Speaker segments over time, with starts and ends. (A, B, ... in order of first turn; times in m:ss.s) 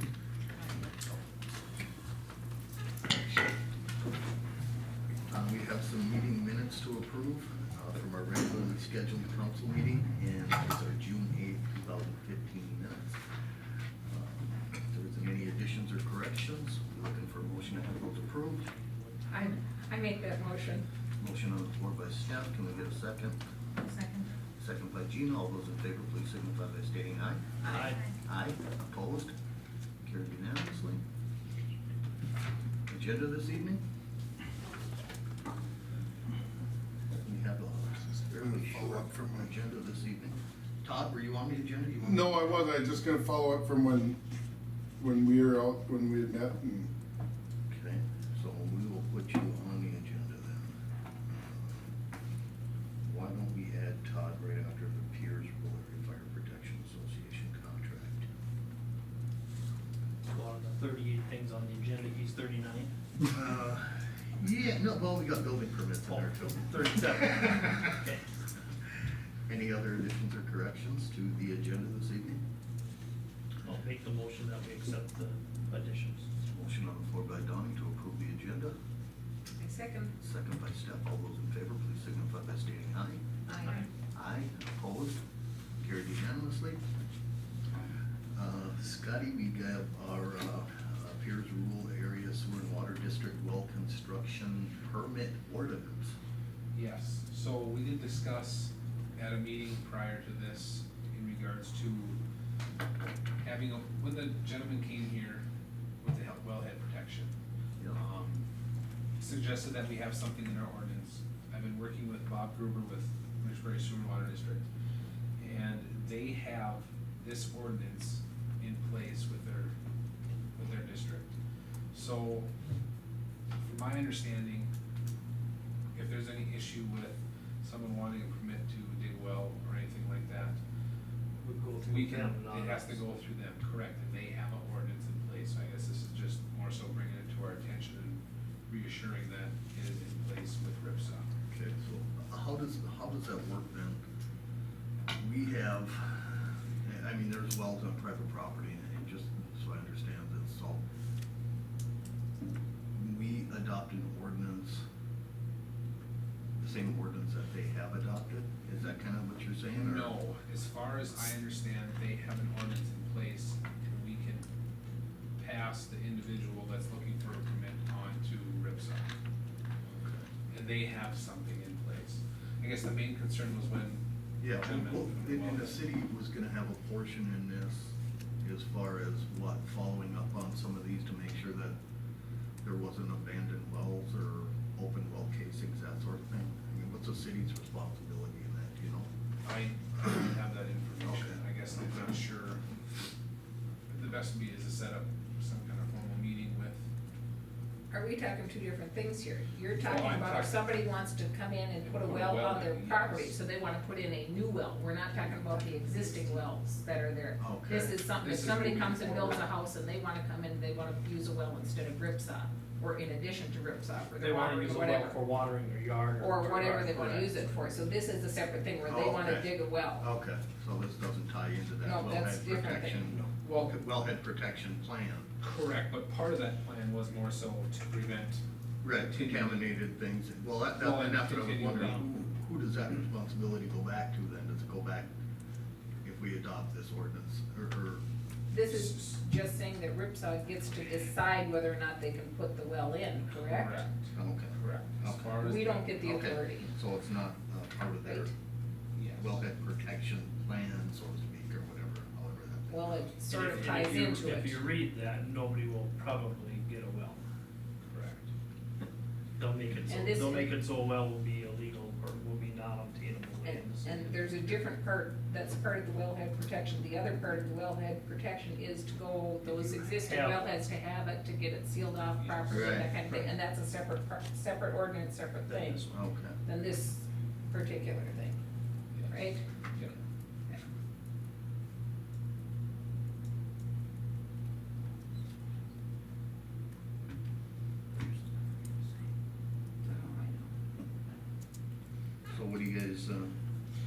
0:05.3-0:13.2 A
0:14.0-0:18.7 A
0:19.3-0:20.9 B
0:21.2-0:23.4 A
0:24.6-0:29.3 A
0:27.6-0:28.0 C
0:30.0-0:31.0 A
0:32.9-0:33.8 A
0:37.1-0:42.6 A
0:38.4-0:39.3 D
0:42.0-0:44.2 D
0:45.0-0:46.9 D
0:47.7-0:51.9 A
0:53.0-0:58.3 A
1:00.3-1:02.9 C
1:03.2-1:07.1 A
1:06.7-1:08.2 C
1:09.5-1:12.4 A
1:13.6-1:16.3 C
1:16.4-1:18.7 A
1:19.6-1:20.1 B
1:20.2-1:25.2 A
1:23.5-1:23.8 B
1:25.8-1:26.9 A
1:28.3-1:36.1 A
1:36.7-1:42.2 E
1:43.4-1:45.4 E
1:46.0-1:47.3 E
1:47.9-1:48.4 E
1:49.2-1:54.6 E
1:55.4-1:59.7 E
2:00.6-2:01.3 E
2:01.9-2:02.5 E
2:03.6-2:04.7 E
2:05.9-2:10.6 E
2:11.4-2:13.0 C
2:11.8-2:21.3 E
2:21.5-2:24.0 A
2:25.1-2:30.8 A
2:32.9-2:34.8 A
2:36.6-2:40.1 A
2:39.7-2:44.5 E
2:45.4-2:49.1 E
2:49.9-2:50.3 A
2:50.5-2:55.8 E
2:54.4-3:01.8 A
3:02.6-3:09.1 A
3:09.4-3:12.6 E
3:11.0-3:12.1 A
3:13.9-3:16.8 E
3:17.9-3:35.2 B
3:19.8-3:20.7 E
3:21.8-3:23.4 E
3:25.2-3:26.4 C
3:27.4-3:28.0 A
3:28.1-3:29.5 E
3:34.2-3:37.3 C
3:36.2-3:40.1 B
3:38.9-3:45.3 A
3:41.8-3:43.1 B
3:43.4-3:43.8 E
3:45.4-3:49.6 E
3:48.8-3:55.1 A
3:50.8-3:52.0 E
3:56.0-3:58.0 A
3:58.5-4:03.9 B
3:58.7-3:59.0 E
4:03.2-4:05.8 E
4:04.1-4:05.4 A
4:05.4-4:06.7 B
4:06.0-4:08.3 A
4:08.9-4:09.4 E
4:09.2-4:13.1 A
4:12.7-4:14.6 B
4:13.3-4:17.2 C
4:17.9-4:18.2 E
4:19.4-4:24.3 C
4:19.9-4:20.5 B
4:23.4-4:35.9 B
4:30.0-4:30.5 C
4:32.2-4:32.9 E
4:32.5-4:32.9 A
4:35.5-4:35.8 C
4:35.9-4:36.4 A
4:36.4-4:38.4 B
4:38.9-4:39.9 E
4:39.1-4:39.4 B
4:49.8-4:50.2 A
4:52.3-4:53.4 A